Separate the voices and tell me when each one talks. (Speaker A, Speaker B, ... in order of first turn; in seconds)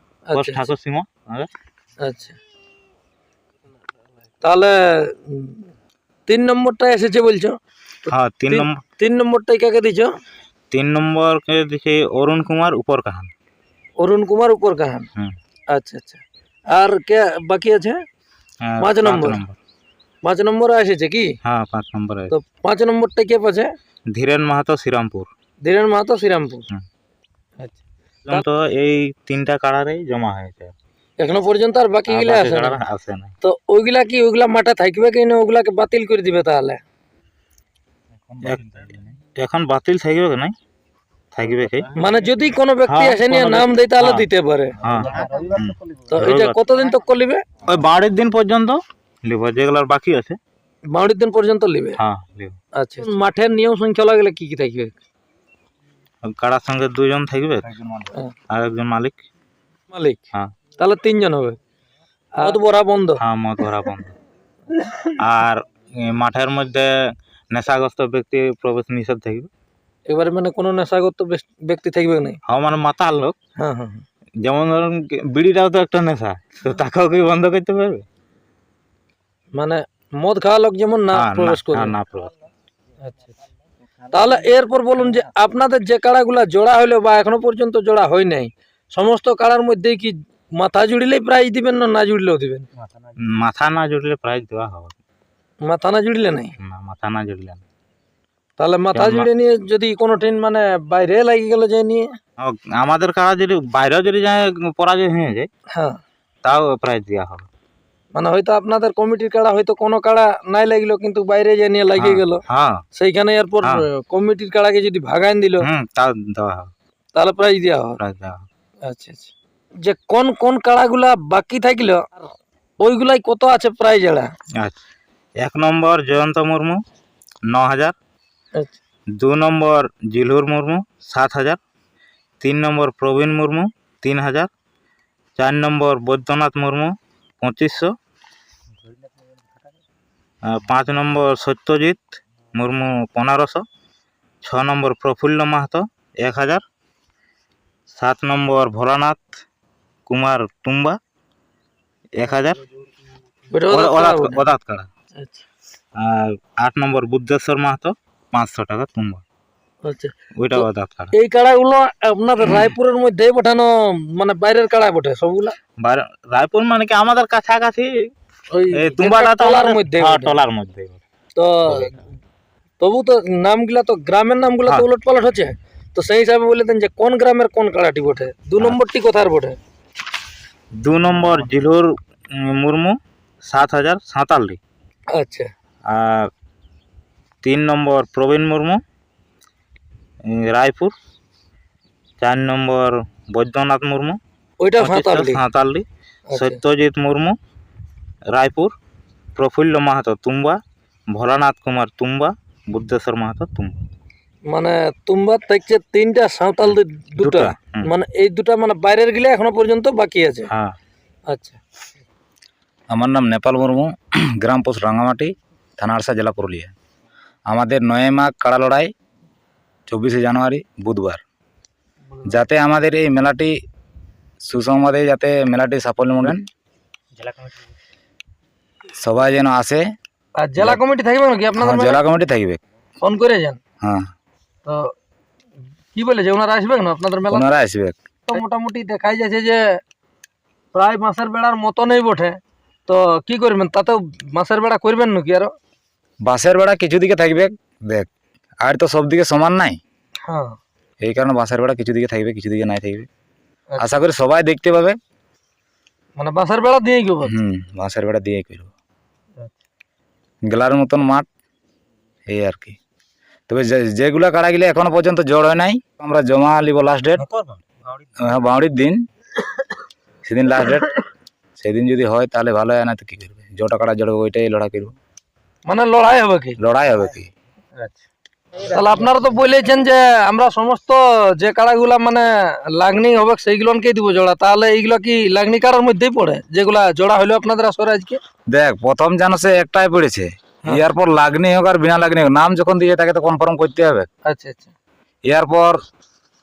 Speaker A: 0.3-0.7, 2.0-2.4, 4.4-5.6, 6.3-7.5, 8.1-10.1, 14.0-15.1, 15.7-18.0, 18.8-19.4, 20.2-21.3, 22.3-23.7, 25.6-26.6, 31.2-32.8, 33.4-36.8, 42.0-44.8, 46.1-47.4, 50.9-52.0, 52.8-55.0, 59.9-60.2, 60.8-61.6, 62.4-63.2, 64.7-65.1, 70.1-72.4, 73.6-74.0, 79.5-82.0, 84.1-92.7, 95.6-96.5, 98.6-102.1, 105.7-106.0, 108.1-112.4, 112.9-115.7, 117.1-118.0, 118.8-119.3, 119.8-122.2, 122.8-124.3, 153.5-154.4, 155.2-155.4, 159.8-165.6, 168.5-170.4, 171.3-171.9, 172.8-179.6, 185.1-185.5, 194.6-195.4, 196.3-196.6, 204.5-210.5, 211.3-211.6, 222.1-222.4, 230.4-232.0, 233.0-233.6, 234.6-234.9, 235.9-237.4, 238.3-239.8, 240.7-245.5, 250.2-250.5, 256.2-257.3, 275.6-276.6, 278.6-288.2, 294.2-294.7
Speaker B: 0.3-1.5, 8.1-8.8, 10.7-13.3, 18.6-19.6, 21.4-22.3, 24.1-25.3, 28.2-30.7, 32.1-33.3, 38.4-40.5, 41.3-41.9, 42.9-44.2, 44.8-46.5, 47.6-50.4, 52.0-52.6, 56.2-57.7, 58.5-59.2, 63.2-64.1, 65.2-66.9, 67.5-69.5, 72.5-73.3, 74.4-78.0, 81.1-82.3, 93.3-95.0, 96.6-97.6, 98.9-99.3, 102.4-105.5, 106.4-107.5, 112.0-112.8, 115.6-116.7, 118.0-118.5, 125.4-126.8, 127.5-127.9, 129.2-131.6, 132.4-134.5, 135.4-137.9, 140.4-143.6, 144.4-146.6, 147.9-149.3, 150.1-151.0, 152.2-152.6, 153.7-154.9, 156.0-159.2, 160.3-161.1, 165.8-168.1, 168.7-171.0, 180.8-184.6, 185.8-186.3, 187.4-188.8, 190.2-190.9, 192.2-194.2, 194.8-197.3, 198.3-198.7, 199.3-200.6, 201.1-203.8, 206.6-207.9, 210.5-210.8, 267.2-267.6
Speaker C: 57.7-58.1, 212.9-216.7, 217.5-218.9, 219.9-221.2, 222.2-223.5, 224.4-226.5, 229.0-229.8, 231.6-232.6, 233.8-234.1, 237.3-238.0, 246.2-248.1, 248.6-249.8, 251.0-253.1, 253.8-255.0, 257.3-258.7, 260.5-261.2, 262.3-262.8, 263.5-267.2, 268.2-269.0, 270.2-270.9, 271.6-274.9, 276.6-277.3, 288.5-294.1, 295.3-295.8